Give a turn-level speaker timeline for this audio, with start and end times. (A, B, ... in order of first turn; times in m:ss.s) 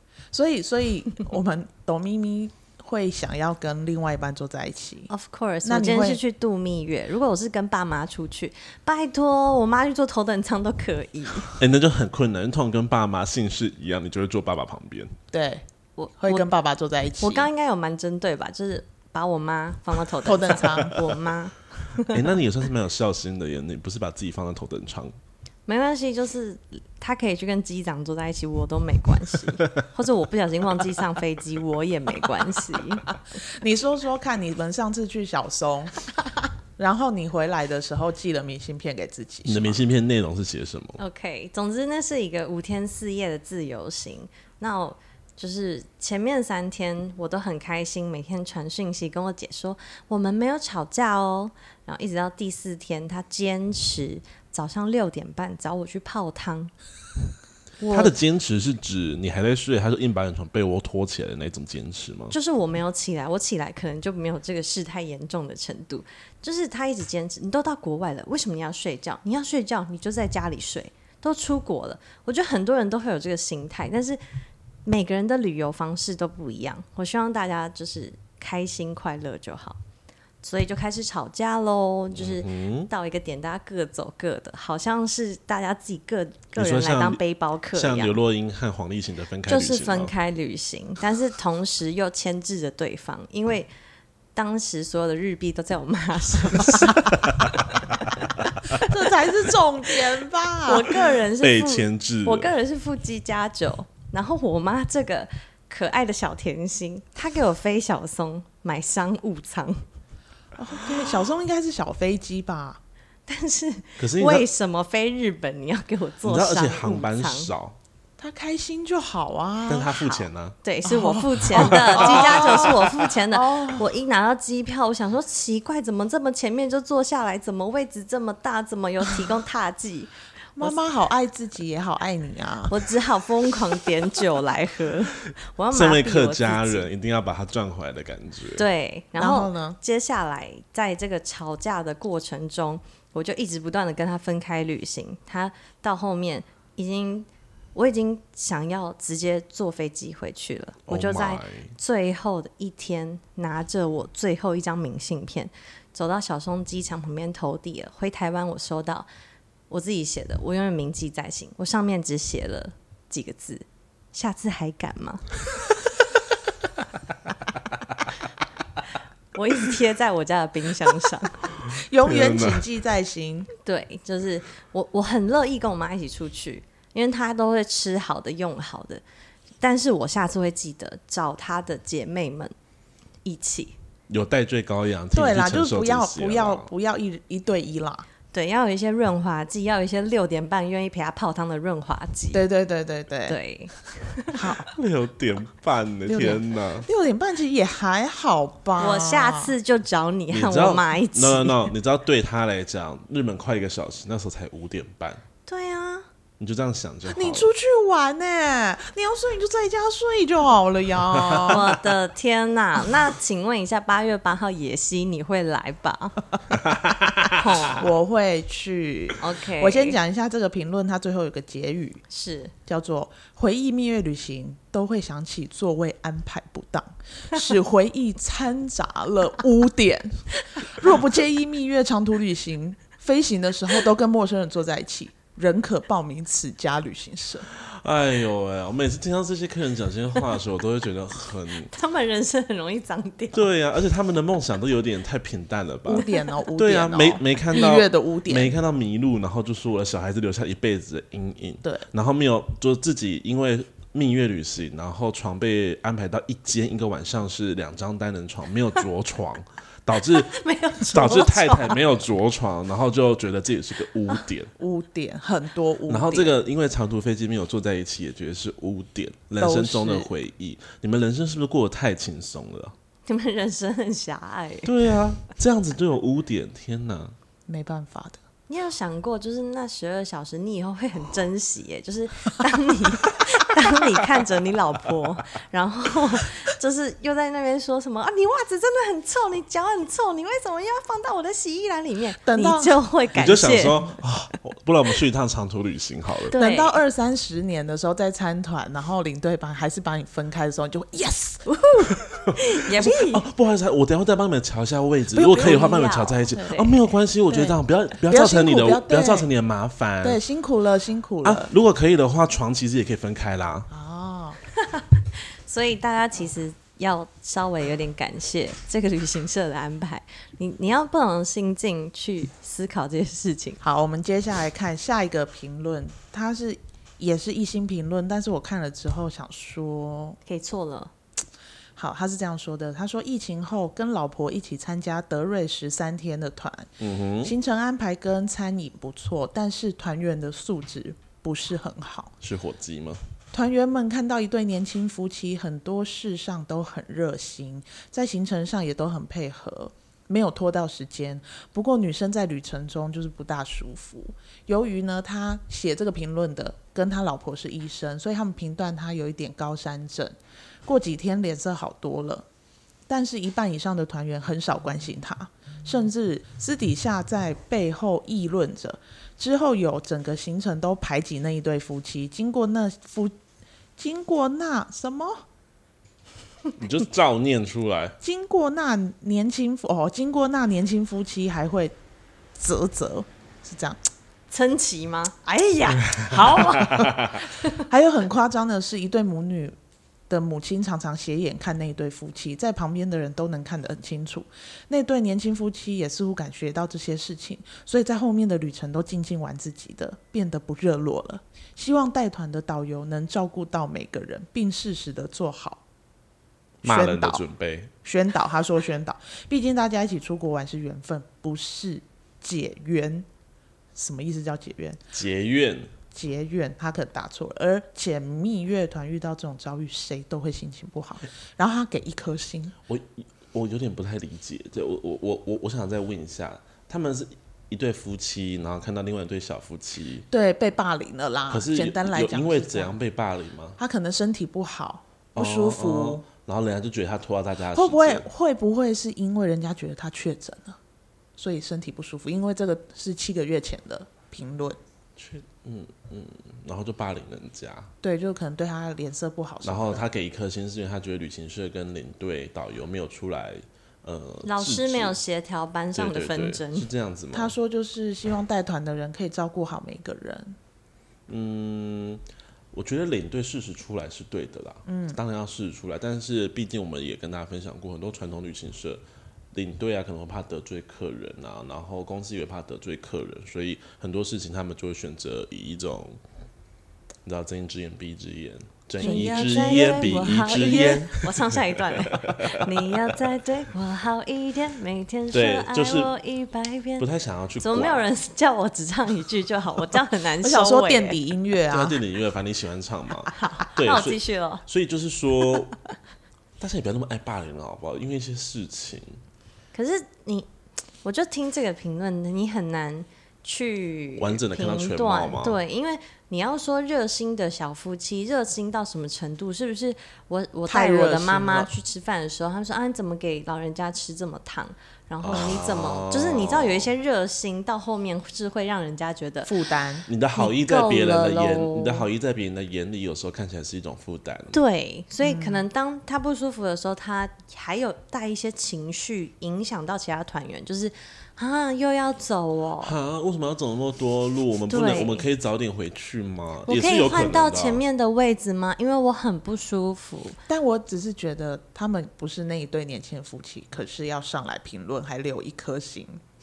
0:00.3-0:05.1 A
0:05.1-0:11.6 B
0:05.6-0:06.2 A
0:11.6-0:15.1 C
0:15.3-0:15.6 A
0:16.0-0:16.5 B
0:16.2-0:17.5 A
0:17.2-0:22.2 B
0:20.2-0:21.0 A
0:22.0-0:25.2 C
0:25.7-0:33.1 B
0:33.5-0:36.0 A
0:36.8-0:39.9 A
0:39.5-0:41.0 C
0:41.0-0:56.7 B
0:57.8-0:58.1 B
0:57.8-1:02.4 C
1:02.3-1:14.2 B
1:14.8-1:19.8 B
1:20.4-1:28.2 B
1:22.1-1:22.9 C
1:26.6-1:27.2 C
1:27.7-1:30.1 C
1:29.5-1:33.7 B
1:34.4-1:37.3 B
1:37.1-1:37.6 C
1:38.4-1:38.8 C
1:38.8-1:41.0 A
1:40.6-1:49.8 B
1:41.4-1:42.5 C
1:50.6-1:52.8 A
1:53.3-1:57.5 B
1:54.0-1:54.5 C
1:56.2-1:57.8 C
1:58.2-1:59.9 A
1:59.7-2:00.6 C
1:59.9-2:10.8 B
2:00.8-2:03.9 A
2:01.6-2:02.7 C
2:10.6-2:12.8 A
2:12.7-2:16.9 B
2:15.7-2:18.6 C
2:18.6-2:39.1 B
2:19.2-2:19.8 A
2:30.9-2:31.7 C
2:39.7-2:45.2 B
2:49.3-2:51.5 B
2:51.7-2:53.5 A
2:51.7-2:52.6 C
2:53.6-2:59.0 B
2:59.6-3:02.5 B
3:03.2-3:03.8 B
3:04.1-3:06.7 C
3:05.1-3:08.1 A
3:08.3-3:12.4 B
3:12.3-3:13.4 A
3:13.3-3:14.4 B
3:14.3-3:14.7 A
3:14.7-3:16.9 C
3:16.1-3:19.5 A
3:18.8-3:21.7 B
3:20.3-3:25.2 C
3:25.5-3:26.1 B
3:26.4-3:27.5 C
3:27.1-3:31.8 A
3:31.5-3:36.2 B
3:36.9-3:37.3 C
3:37.3-3:37.8 B
3:37.8-3:42.0 A
3:39.2-3:40.0 B
3:42.1-3:42.5 B
3:42.7-3:57.5 A
3:57.5-4:01.7 C
4:01.7-4:03.5 B
4:03.3-4:20.3 C
4:05.9-4:08.6 A
4:20.1-4:21.8 B
4:20.9-4:24.5 C
4:24.6-4:26.4 A
4:25.9-4:32.7 C
4:29.4-4:30.1 A
4:33.1-4:34.7 B
4:34.6-4:37.2 C
4:37.5-4:38.2 A
4:38.5-4:53.9 B
4:52.2-4:52.8 A
4:53.1-4:56.3 C
4:56.3-4:56.8 B
4:56.4-5:01.5 A
5:01.5-5:03.3 B
5:02.3-5:10.2 C
5:05.2-5:06.8 B
5:05.2-5:05.7 A
5:07.3-5:09.3 A
5:10.0-5:11.5 A
5:11.2-5:13.7 C
5:13.7-5:14.4 A
5:14.6-5:23.6 B
5:23.6-5:30.2 A
5:30.3-5:30.9 B
5:31.8-5:36.7 A
5:36.8-5:37.3 C
5:37.2-5:42.1 A
5:42.2-5:43.0 C
5:43.3-6:02.3 A
6:02.9-6:13.2 A
6:13.8-6:15.2 A
6:16.6-6:18.0 C
6:18.0-6:21.8 A
6:22.4-6:23.8 A
6:24.3-6:27.6 B
6:25.7-6:27.2 C
6:26.1-6:27.0 A
6:27.6-6:29.6 A
6:30.1-6:45.6 A
6:46.6-6:47.2 A
6:46.6-6:47.7 C
6:47.8-6:53.1 A
6:53.8-6:54.8 A
6:54.9-6:55.7 C
6:55.9-7:02.6 A
7:02.7-7:10.1 C
7:10.1-7:12.8 A
7:11.3-7:13.6 C
7:13.6-7:16.0 A
7:15.2-7:18.0 C
7:17.5-7:20.6 A
7:21.2-7:24.6 A
7:25.0-7:27.7 C
7:27.8-7:29.8 A
7:29.4-7:35.0 C
7:34.2-7:36.7 B
7:35.7-7:37.4 C
7:37.1-7:40.4 A
7:41.1-7:48.8 C
7:44.7-7:45.0 A
7:49.3-7:56.0 C
7:57.0-8:02.5 C
7:58.8-7:59.8 A
7:58.8-8:06.9 B
8:05.1-8:05.9 C
8:06.8-8:07.8 C
8:07.4-8:11.0 B
8:10.2-8:11.8 A
8:11.5-8:15.6 C
8:13.1-8:14.4 B
8:16.4-8:19.0 C
8:19.5-8:20.3 B
8:20.8-8:39.3 B
8:24.0-8:25.4 C
8:30.5-8:31.5 A
8:35.0-8:36.7 C
8:39.3-8:39.9 A
8:39.9-8:44.4 C
8:40.2-8:41.9 B
8:44.3-8:52.8 B
8:45.0-8:45.5 A
8:52.6-8:57.6 C
8:54.5-8:55.0 B
8:56.5-9:00.2 B
9:00.3-9:06.0 A